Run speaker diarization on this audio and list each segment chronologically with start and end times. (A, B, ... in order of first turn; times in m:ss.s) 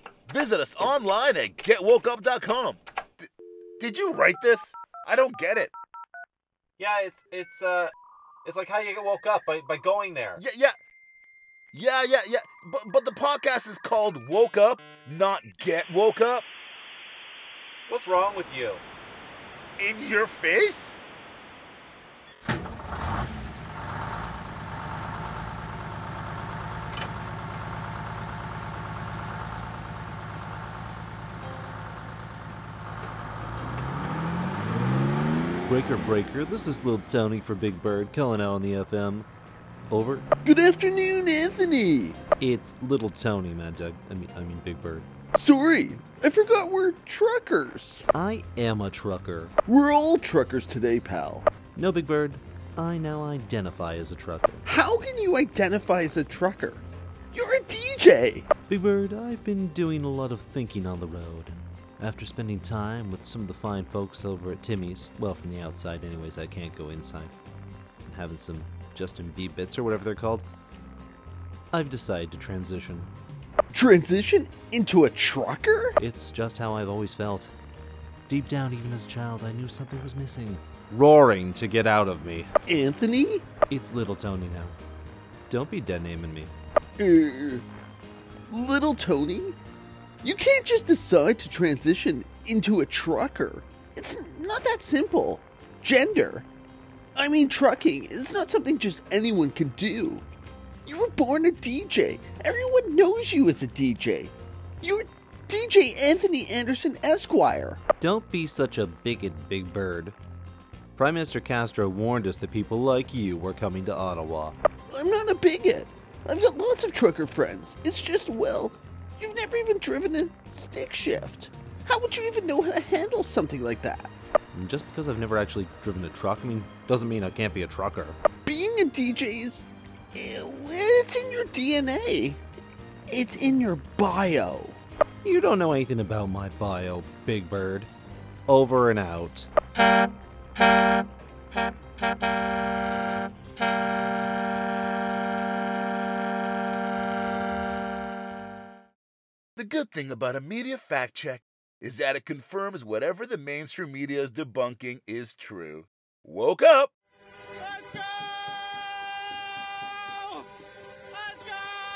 0:00.3-0:05.7 A
0:06.8-0:10.4 B
0:10.4-0:10.7 A
0:11.7-0:16.5 A
0:17.9-0:18.8 B
0:19.8-0:21.0 A
0:35.6-0:39.3 B
0:39.9-0:40.2 B
0:40.4-0:42.2 C
0:42.4-0:45.0 B
0:45.3-0:48.0 C
0:48.1-0:49.5 B
0:49.6-0:51.5 C
0:51.8-0:54.6 B
0:54.6-0:58.5 C
0:58.7-1:07.3 B
1:08.0-1:10.5 B
1:11.7-1:13.1 B
1:13.7-1:16.0 C
1:16.0-1:17.5 B
1:18.3-1:22.5 B
1:22.7-1:23.5 C
1:23.7-1:24.8 B
1:25.5-1:26.5 B
1:27.0-1:27.6 C
1:28.5-1:29.6 C
1:30.2-1:36.5 C
1:37.2-1:40.2 C
1:40.8-1:47.8 C
1:48.0-1:50.2 B
1:51.0-1:54.6 B
1:54.9-2:04.1 C
2:04.5-2:08.2 B
2:08.4-2:12.4 C
2:13.1-2:14.8 C
2:15.2-2:17.9 B
2:18.5-2:19.5 B
2:29.6-2:36.9 A